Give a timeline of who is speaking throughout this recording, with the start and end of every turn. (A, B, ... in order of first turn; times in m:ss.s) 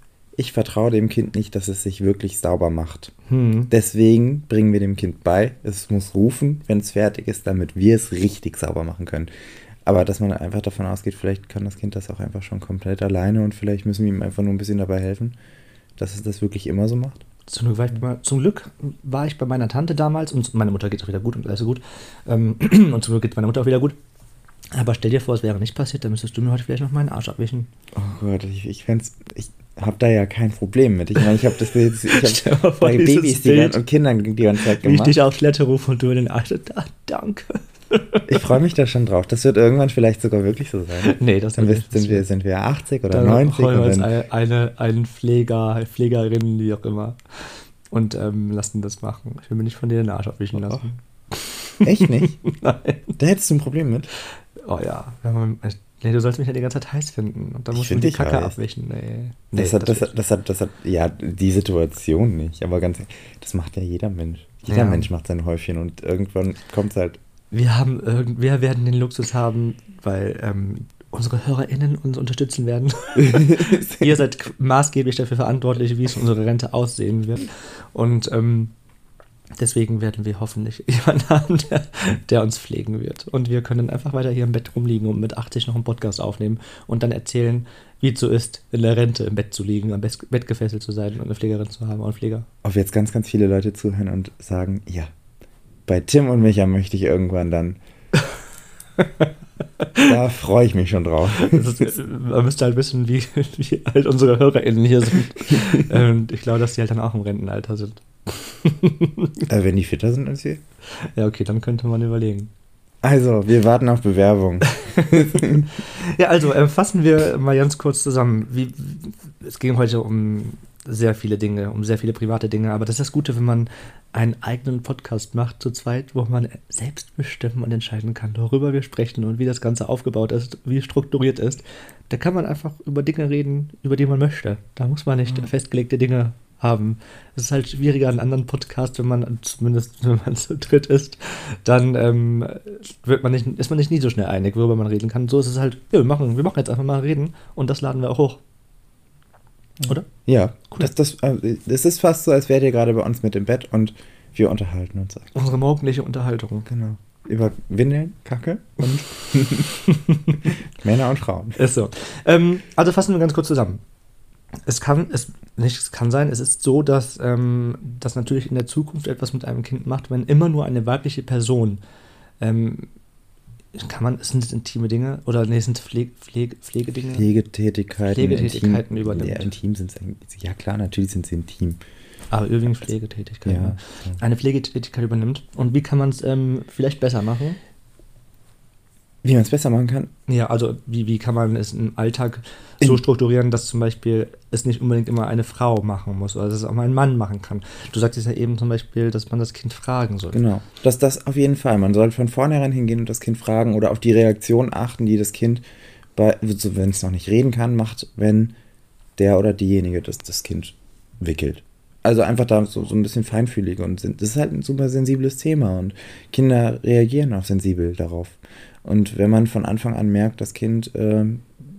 0:00.4-0:03.1 A
0:03.3-0:03.7 B
0:03.7-0:09.3 A
0:09.9-0:15.4 A
0:16.0-0:17.2 A
0:17.5-0:24.0 B
0:24.7-0:27.7 B
0:27.9-0:35.2 A
0:31.2-0:33.8 B
0:34.7-0:38.5 B
0:38.3-0:44.1 A
0:41.0-0:42.2 B
0:43.1-0:53.2 B
0:50.6-0:51.0 A
0:51.8-0:52.4 A
0:53.2-0:54.1 A
0:54.6-1:00.2 B
0:57.7-0:58.6 A
0:59.5-1:07.2 A
1:04.7-1:05.1 B
1:07.5-1:18.7 B
1:13.2-1:14.1 A
1:19.6-1:32.5 B
1:32.6-1:35.1 A
1:35.9-1:37.8 A
1:39.0-1:39.3 B
1:39.8-1:40.1 B
1:40.0-1:41.7 A
1:41.4-1:49.4 B
1:45.5-1:45.8 A
1:49.5-1:50.6 A
1:51.0-1:52.5 B
1:53.0-1:55.7 A
1:54.7-2:28.4 B
2:29.8-2:35.3 A
2:35.3-2:36.7 B
2:36.7-2:39.7 A
2:39.5-2:40.6 B
2:40.4-2:41.6 A
2:41.6-2:43.8 B
2:44.7-2:51.8 B
2:52.4-2:52.9 B
2:53.8-2:57.3 B
2:57.1-3:01.8 A
2:58.1-2:59.5 B
3:02.3-3:07.6 B
3:03.4-3:04.2 A
3:09.2-3:10.1 A
3:10.3-3:20.4 B
3:20.3-3:25.6 A
3:26.2-3:28.6 A
3:29.2-3:41.5 A